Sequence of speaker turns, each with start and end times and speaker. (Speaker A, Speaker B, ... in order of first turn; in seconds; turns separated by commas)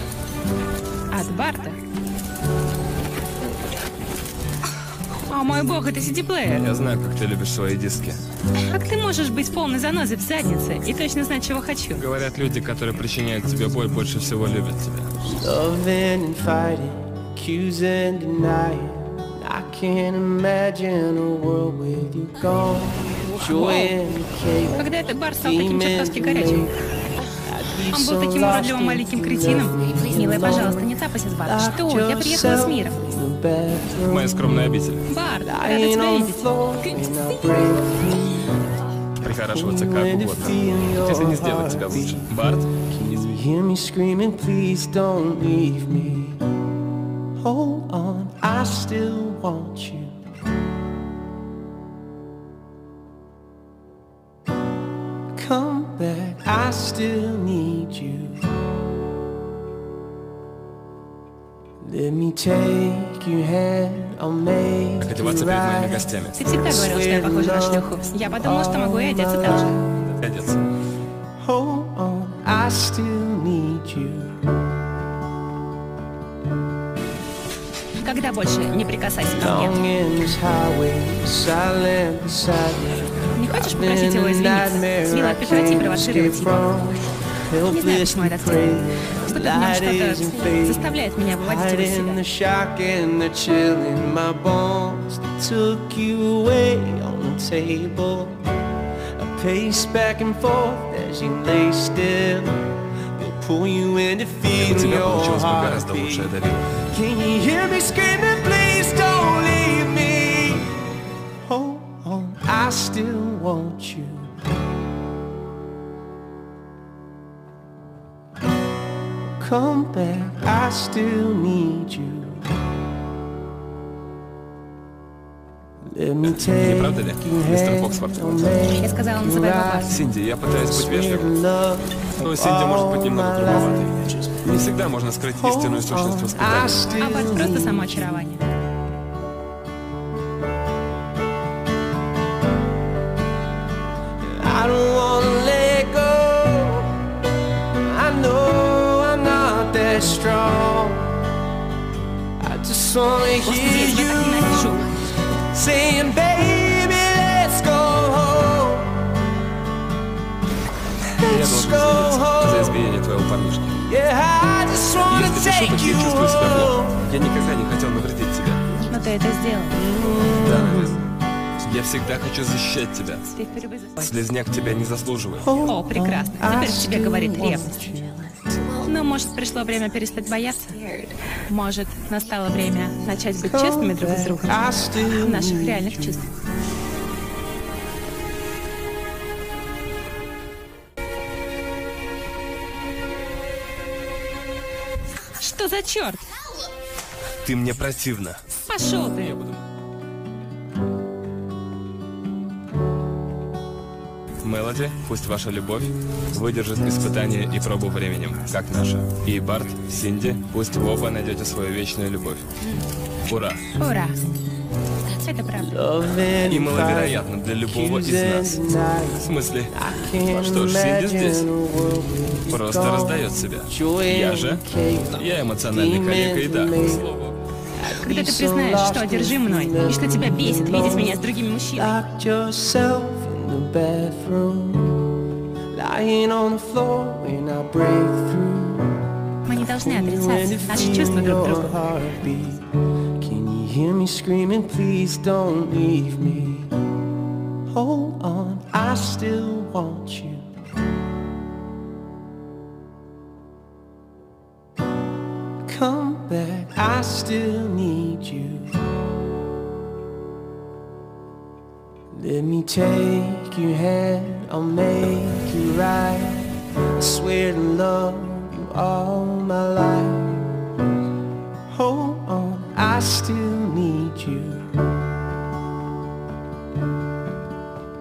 Speaker A: 1.1-1.8, Speaker A: 5.3-6.6, Speaker B: 6.5-8.2, Speaker A: 8.6-12.0, Speaker B: 11.9-15.1, Speaker C: 15.2-26.8, Speaker A: 23.2-23.9, Speaker A: 24.8-26.7, Speaker C: 27.4-34.7, Speaker A: 27.9-33.0, Speaker B: 34.0-35.0, Speaker A: 35.1-37.4, Speaker C: 35.4-38.5, Speaker B: 39.2-42.7, Speaker C: 39.5-46.4, Speaker C: 47.4-50.2, Speaker C: 55.3-58.5, Speaker C: 61.8-70.0, Speaker B: 65.0-66.4, Speaker A: 66.3-69.8, Speaker B: 70.0-70.7, Speaker C: 71.4-74.4, Speaker A: 78.0-79.8, Speaker C: 79.4-98.5, Speaker A: 83.3-86.8, Speaker A: 87.7-92.2, Speaker C: 99.2-110.8, Speaker B: 104.5-106.6, Speaker C: 111.4-114.4, Speaker C: 119.4-122.5, Speaker C: 125.8-130.0, Speaker B: 126.2-128.4, Speaker A: 128.8-130.0, Speaker B: 129.9-131.4, Speaker C: 130.6-134.2, Speaker B: 132.2-136.8, Speaker C: 135.3-138.3, Speaker A: 136.8-138.4, Speaker C: 144.2-147.0, Speaker C: 147.8-151.2, Speaker C: 152.4-154.9, Speaker A: 153.4-154.9, Speaker C: 155.5-159.1, Speaker B: 161.2-163.8, Speaker C: 161.2-162.8, Speaker C: 163.8-167.1, Speaker B: 165.1-168.6, Speaker A: 168.8-169.8, Speaker C: 169.7-171.0, Speaker B: 170.4-171.1, Speaker B: 171.6-173.3, Speaker A: 173.3-174.2, Speaker B: 174.0-175.5, Speaker C: 175.4-178.4, Speaker A: 175.6-177.8, Speaker A: 178.8-186.3, Speaker C: 183.4-186.3, Speaker A: 195.4-196.2, Speaker B: 197.4-198.4, Speaker A: 198.7-199.4, Speaker B: 199.2-199.5, Speaker B: 204.4-212.4, Speaker B: 213.3-213.6, Speaker A: 213.8-214.2, Speaker A: 215.1-215.8, Speaker C: 215.6-227.1, Speaker B: 216.4-218.6, Speaker B: 219.1-221.5, Speaker B: 222.5-227.4, Speaker C: 227.7-235.1, Speaker A: 228.0-231.9, Speaker C: 235.7-239.0, Speaker A: 239.4-241.8, Speaker C: 239.7-242.7, Speaker C: 243.2-246.7, Speaker C: 247.7-250.5, Speaker C: 255.6-258.8, Speaker C: 262.1-270.5, Speaker C: 271.7-274.7